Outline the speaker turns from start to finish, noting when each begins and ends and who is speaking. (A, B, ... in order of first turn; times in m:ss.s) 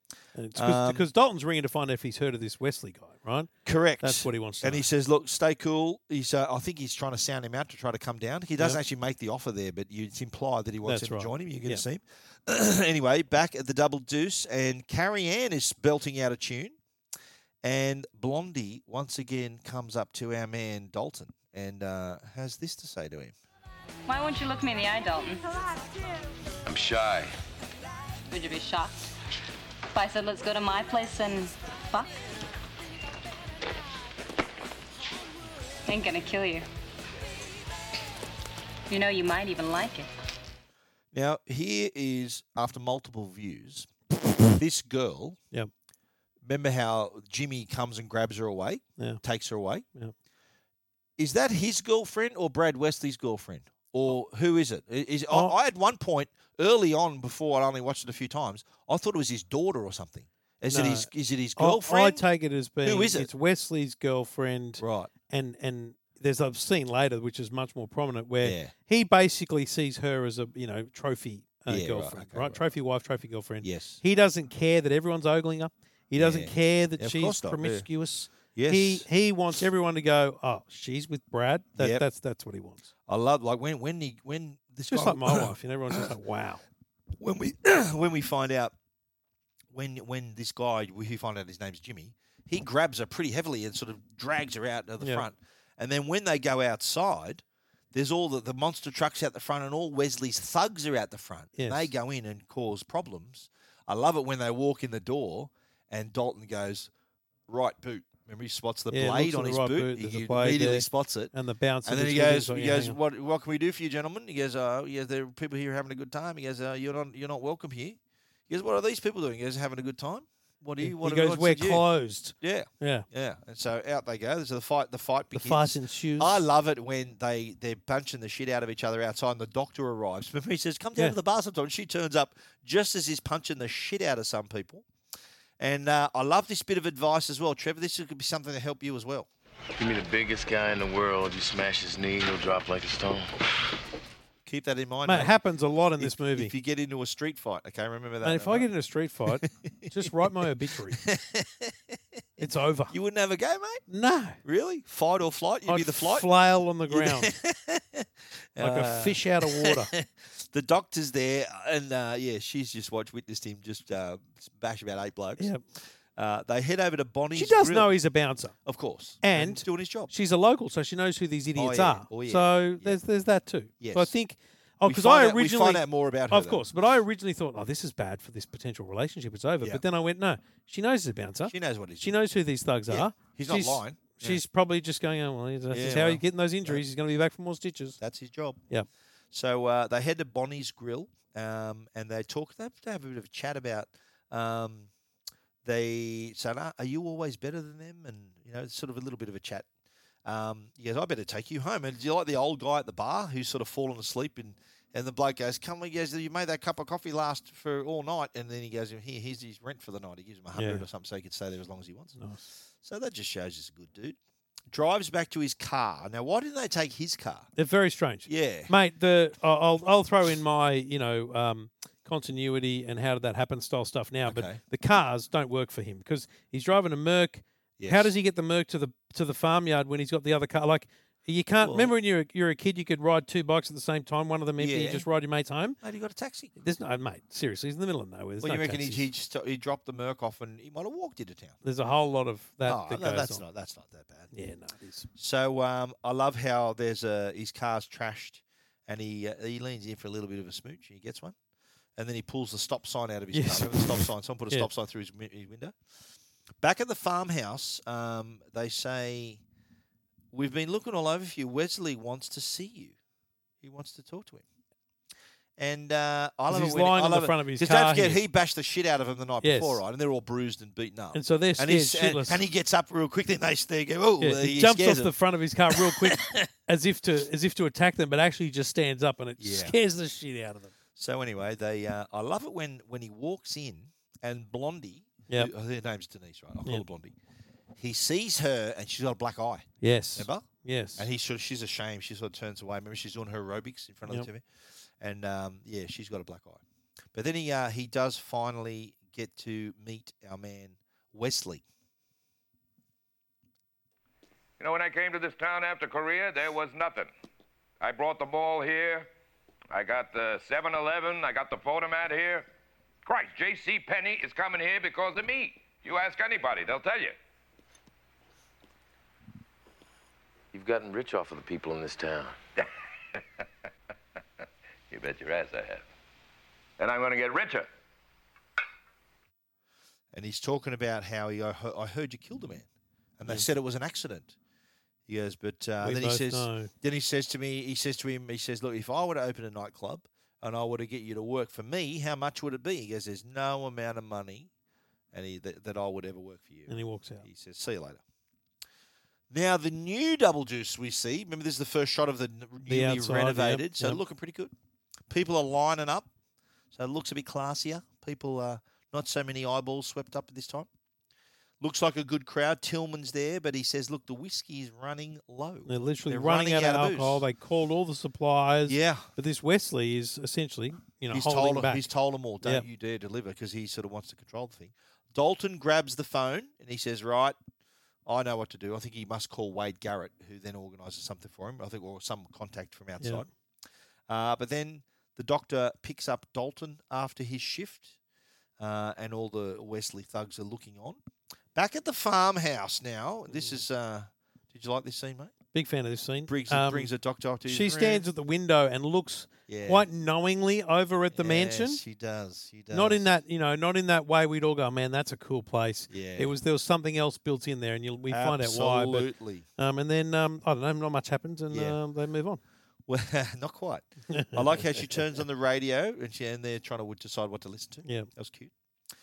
0:00.4-0:04.9 A
0:00.6-0:01.0 B
0:03.6-0:16.8 B
0:10.8-0:11.8 A
0:17.6-0:23.3 B
0:24.1-0:25.4 C
0:26.6-0:27.3 D
0:28.3-0:29.1 C
0:29.9-0:32.1 C
0:35.9-0:36.6 C
0:38.9-0:40.1 C
0:41.1-0:43.9 B
0:44.6-0:45.4 B
0:46.4-0:49.8 B
0:51.2-1:02.2 B
1:00.7-1:22.9 A
1:02.8-1:03.3 B
1:04.8-1:05.1 B
1:08.4-1:08.7 B
1:11.7-1:12.6 B
1:13.6-1:14.0 B
1:16.2-1:17.9 B
1:18.6-1:19.1 B
1:21.8-1:22.0 B
1:23.1-1:26.1 B
1:24.9-1:26.6 A
1:27.2-1:28.8 B
1:29.7-1:46.9 B
1:35.0-1:35.3 A
1:41.6-1:41.9 A
1:47.5-1:51.3 B
1:48.9-1:53.0 A
1:51.8-2:01.8 B
2:00.8-2:03.1 A
2:02.4-2:14.9 B
2:05.3-2:06.4 A
2:15.6-2:19.3 B
2:19.8-2:23.3 D
2:24.5-2:25.3 B
2:25.0-2:26.5 A
2:26.0-2:28.7 B
2:28.2-2:31.0 A
2:29.4-2:29.9 B
2:31.0-2:31.8 B
2:32.4-2:33.0 A
2:32.4-2:33.8 B
2:33.9-2:34.4 A
2:34.4-2:36.3 B
2:35.7-2:37.3 A
2:36.9-2:45.5 B
2:38.6-2:39.9 A
2:46.2-2:47.9 B
2:47.4-2:48.6 A
2:48.6-2:50.1 B
2:49.2-3:08.0 A
2:51.6-2:53.0 B
2:53.8-2:54.1 B
2:54.9-2:56.6 B
3:01.5-3:02.2 B
3:02.9-3:04.4 B
3:05.7-3:06.8 B
3:08.0-3:08.6 B
3:09.3-3:14.9 B
3:15.6-3:19.7 B
3:20.2-3:32.2 B
3:30.6-3:30.8 A
3:32.2-3:32.4 A
3:32.8-3:34.2 B
3:34.7-3:37.5 B
3:37.6-3:55.8 A
3:38.3-3:38.7 B
3:44.3-3:44.6 B
3:47.8-3:48.1 B
3:51.6-3:51.9 B
3:54.6-3:55.1 B
3:55.8-3:56.5 B
3:56.6-3:59.1 A
3:58.4-4:01.6 B
4:01.6-4:03.4 A
4:02.6-4:04.3 B
4:04.3-4:05.1 A
4:05.2-4:11.4 B
4:12.0-4:15.8 B
4:13.3-4:14.7 A
4:16.6-4:19.4 B
4:20.3-4:23.0 B
4:23.6-4:24.4 B
4:25.6-4:35.1 B
4:26.5-4:28.2 A
4:29.4-4:29.8 A
4:31.1-4:32.4 A
4:34.2-4:40.7 A
4:35.8-4:36.5 B
4:39.4-4:39.7 B
4:41.0-4:47.1 B
4:47.8-4:54.4 B
4:49.8-4:51.1 A
4:55.0-4:56.6 B
4:57.1-5:01.6 B
5:04.6-5:07.1 E
5:07.8-5:09.1 E
5:09.7-5:12.5 E
5:13.1-5:17.2 E
5:20.5-5:22.4 D
5:24.9-5:25.8 D
5:26.8-5:27.7 E
5:30.1-5:32.7 B
5:33.2-5:34.4 B
5:35.1-5:44.5 B
5:35.8-5:36.7 A
5:45.1-5:48.0 B
5:46.7-5:47.3 A
5:49.3-5:54.5 B
5:52.7-5:54.0 A
5:55.1-5:56.1 B
5:56.7-6:00.7 B
6:01.6-6:07.2 B
6:05.7-6:11.9 A
6:08.7-6:09.1 B
6:11.1-6:17.4 B
6:18.1-6:23.3 B
6:24.1-6:28.0 B
6:28.6-6:31.0 B
6:31.6-6:35.3 B
6:35.5-6:36.9 A
6:36.3-6:38.0 B
6:37.4-6:41.8 A
6:39.5-6:39.9 B
6:41.1-6:43.0 B
6:42.7-6:52.4 A
6:45.9-6:46.3 B
6:48.1-6:49.5 B
6:51.5-6:51.8 B
6:52.9-6:58.5 B
6:54.1-6:55.0 A
6:57.8-6:58.1 A